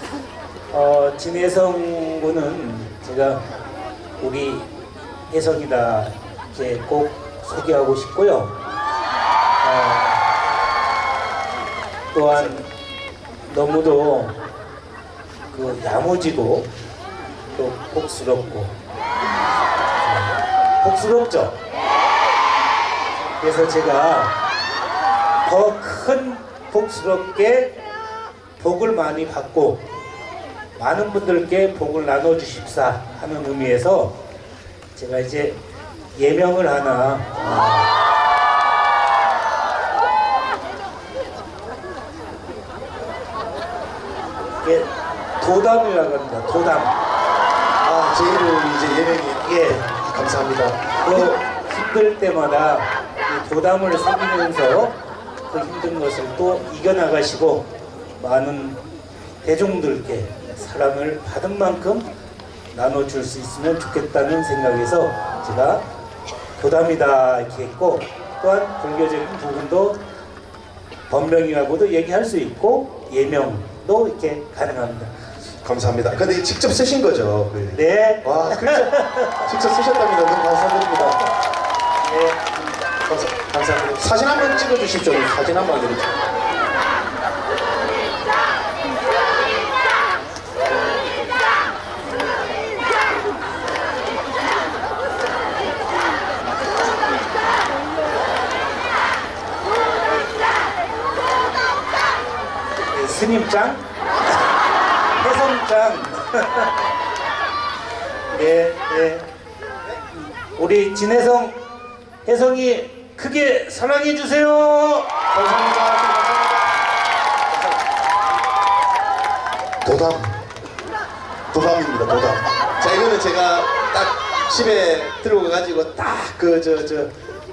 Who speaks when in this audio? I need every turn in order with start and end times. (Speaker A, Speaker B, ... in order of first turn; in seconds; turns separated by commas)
Speaker A: 0.7-3.4, Speaker A: 4.2-4.7, Speaker A: 5.3-8.6, Speaker A: 9.6-10.2, Speaker A: 12.1-12.7, Speaker A: 13.5-14.4, Speaker A: 15.5-16.7, Speaker A: 17.5-18.7, Speaker A: 20.0-21.6, Speaker A: 23.4-24.3, Speaker A: 25.4-27.7, Speaker A: 28.6-29.8, Speaker A: 30.8-34.2, Speaker A: 34.9-35.6, Speaker A: 36.1-37.9, Speaker A: 44.6-47.0, Speaker B: 47.8-51.3, Speaker A: 49.4-49.8, Speaker A: 51.0-55.0, Speaker A: 55.5-58.8, Speaker A: 59.4-62.1, Speaker A: 62.7-65.8, Speaker A: 66.6-70.0, Speaker A: 71.1-75.1, Speaker B: 75.6-81.3, Speaker A: 77.7-79.4, Speaker A: 82.0-82.5, Speaker B: 83.0-86.3, Speaker A: 102.9-103.8, Speaker A: 105.2-106.7, Speaker A: 108.3-109.3, Speaker A: 110.5-111.6, Speaker A: 112.2-115.1, Speaker B: 115.3-116.7, Speaker B: 119.8-120.4, Speaker B: 121.5-127.1